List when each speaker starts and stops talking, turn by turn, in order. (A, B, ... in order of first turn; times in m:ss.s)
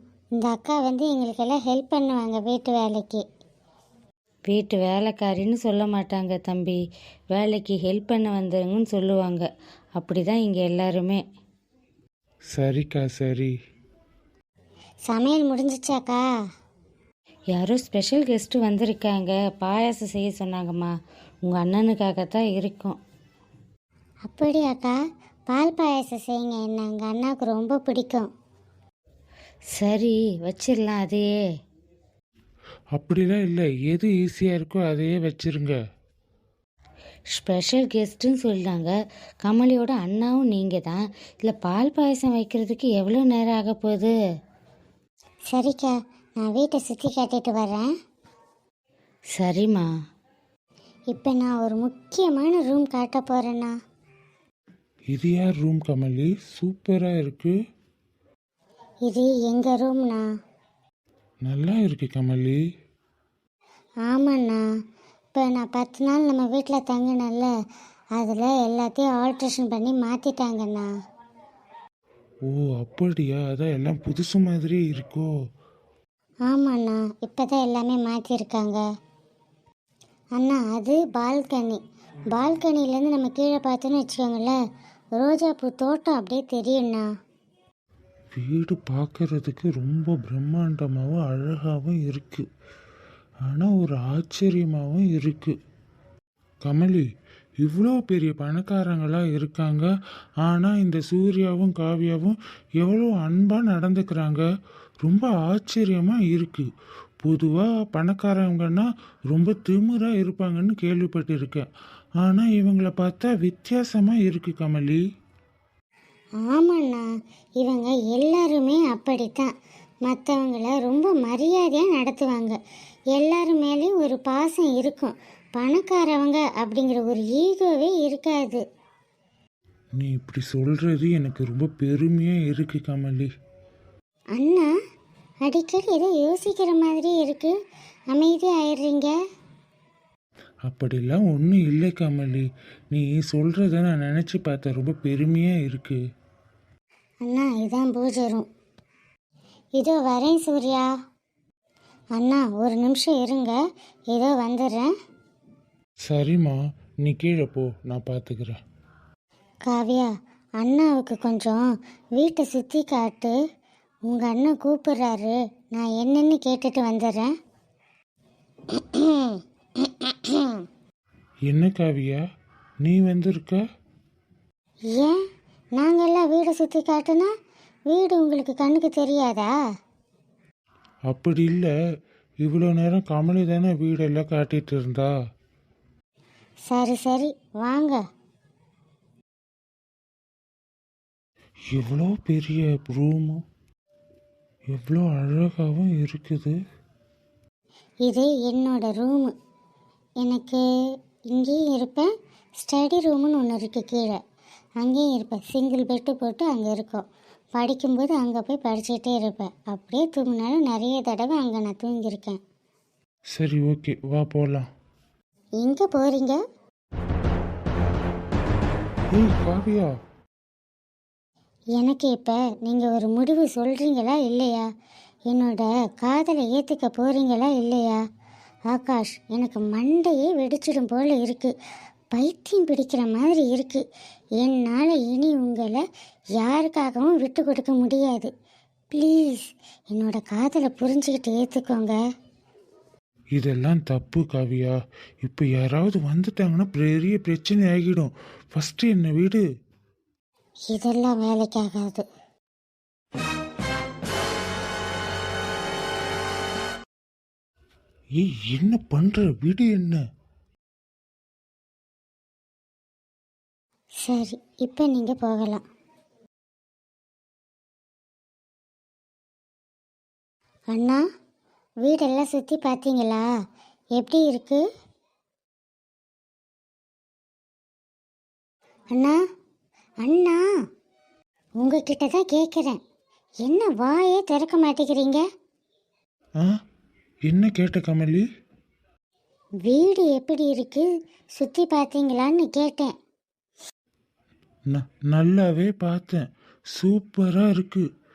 0:00.4-0:03.2 A
0:04.5-0:06.8 B
0:07.3-0:11.2 B
0:12.5-0:13.5 C
0:15.1-0:16.2 A
0:17.5-0:20.9 B
0:21.4-0:23.0 B
0:24.3-0:25.0 A
0:25.5-0:28.3 A
0:29.7-0:31.4 B
0:32.9-0:35.8 C
0:37.3-0:44.1 B
0:45.5-0:47.9 A
0:49.4-0:49.9 B
0:51.1-0:53.7 A
0:55.1-0:57.5 C
0:59.1-1:00.2 A
1:01.4-1:02.6 C
1:04.1-1:04.6 A
1:05.4-1:07.5 A
1:08.2-1:10.9 A
1:12.5-1:15.3 C
1:16.5-1:18.8 A
1:20.4-1:21.8 A
1:22.3-1:24.6 A
1:25.2-1:27.0 A
1:28.4-1:32.5 C
1:33.5-1:35.5 C
1:36.6-1:37.1 C
1:37.6-1:39.9 C
1:40.4-1:44.5 C
1:45.0-1:46.7 C
1:47.2-1:51.7 C
1:52.2-1:55.0 C
1:56.4-1:57.1 A
1:57.6-1:59.5 A
2:00.1-2:02.6 A
2:03.1-2:08.6 A
2:10.0-2:13.3 C
2:14.4-2:14.7 A
2:15.5-2:17.6 A
2:18.1-2:19.2 A
2:20.7-2:26.0 C
2:27.3-2:28.5 A
2:29.8-2:30.9 A
2:32.2-2:33.6 A
2:34.1-2:34.9 A
2:36.1-2:38.6 C
2:39.7-2:40.1 A
2:40.6-2:41.6 A
2:42.2-2:43.4 A
2:44.1-2:47.3 A
2:48.7-2:50.6 A
2:51.5-2:52.2 C
2:52.8-2:53.6 C
2:55.8-2:57.3 A
2:57.9-2:59.5 A
3:01.1-3:01.7 C
3:02.4-3:05.1 C
3:06.7-3:08.0 A
3:11.7-3:13.4 C
3:14.7-3:16.6 C
3:18.1-3:19.3 A
3:20.2-3:20.6 A
3:21.3-3:24.2 A
3:24.8-3:27.0 A
3:27.6-3:32.4 A
3:33.3-3:34.7 C
3:35.6-3:36.4 A
3:39.1-3:39.9 C
3:41.8-3:44.7 A
3:45.3-3:48.0 A
3:48.7-3:51.5 A
3:52.1-3:53.8 A
3:54.4-3:55.8 A
3:56.4-3:58.3 A
3:58.9-4:02.0 A
4:03.4-4:09.4 C
4:10.7-4:12.0 A
4:18.2-4:20.0 C
4:24.0-4:25.6 A
4:30.7-4:31.0 A
4:31.8-4:33.3 A
4:34.0-4:34.6 A
4:40.0-4:40.4 A
4:41.6-4:42.8 A
4:43.4-4:45.2 A
4:47.3-4:48.2 C
4:49.6-4:52.9 A
4:54.7-4:56.2 C
4:56.8-4:57.8 C